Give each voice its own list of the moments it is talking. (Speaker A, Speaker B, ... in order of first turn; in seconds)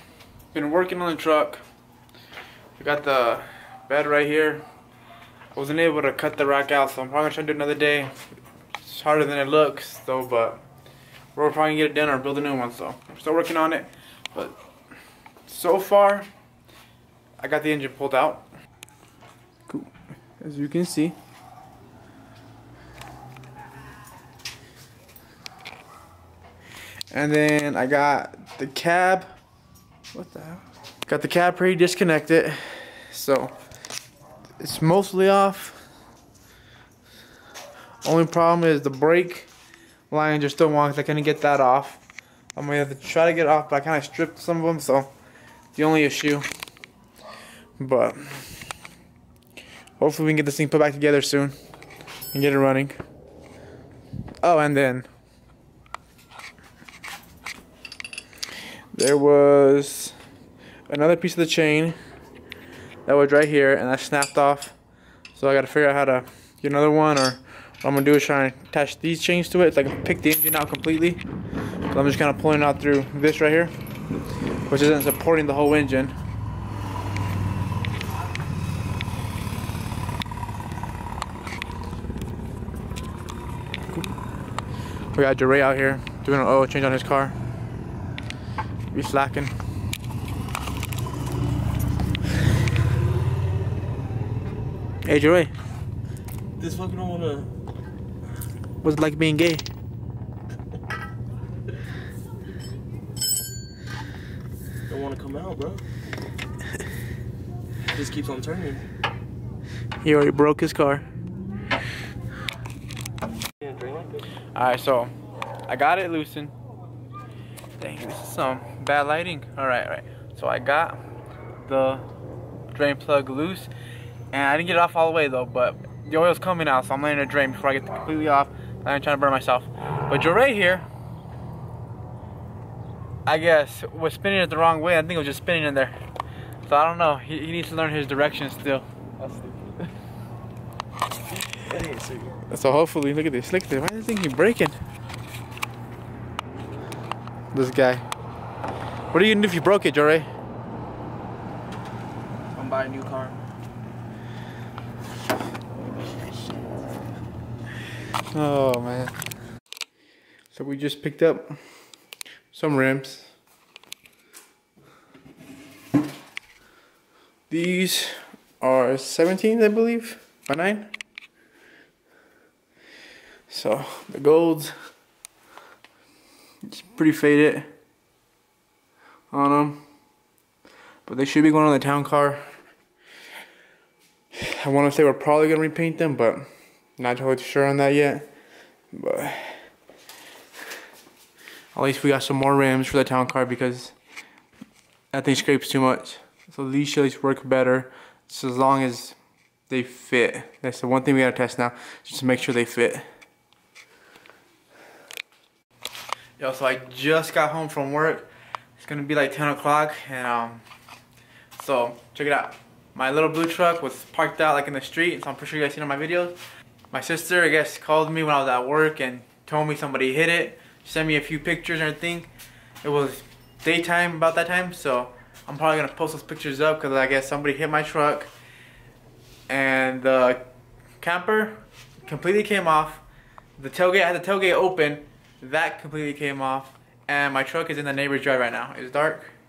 Speaker A: 0.5-1.6, 2.8-4.6, 5.5-8.2, 8.8-10.6, 11.3-14.6, 15.5-16.3, 17.4-18.4, 19.7-21.2, 27.1-29.4, 30.1-33.5, 34.6-35.8, 38.0-39.5, 40.1-42.0, 42.5-45.1, 45.8-46.5, 47.8-48.6, 50.0-51.5, 52.3-53.0, 54.4-55.1, 58.9-60.2, 60.9-62.0, 63.1-64.8, 65.3-71.2, 71.9-73.7, 74.7-76.2, 85.1-87.4, 88.9-89.5, 95.0-95.5, 98.8-99.7, 110.0-111.1, 114.5-115.1, 115.7-116.5, 117.8-121.0, 121.6-122.1, 122.7-123.7, 124.3-130.9, 133.3-136.0, 136.7-139.9, 142.4-144.8, 147.5-148.1, 149.1-150.3, 158.3-159.1, 160.5-161.6, 162.5-163.3, 167.5-170.9, 173.5-174.8, 176.7-177.7, 179.3-179.8, 181.1-182.4, 184.3-186.5, 187.0-188.2, 188.9-189.7, 191.7-193.9, 195.1-199.2, 199.7-203.1, 206.4-210.6, 211.6-216.4, 216.9-222.3, 222.8-228.3, 229.5-230.4, 231.0-233.0, 233.6-239.3
Speaker B: 96.6-97.5, 104.9-105.8, 107.9-108.9, 113.6-114.2, 141.6-142.3, 152.6-153.4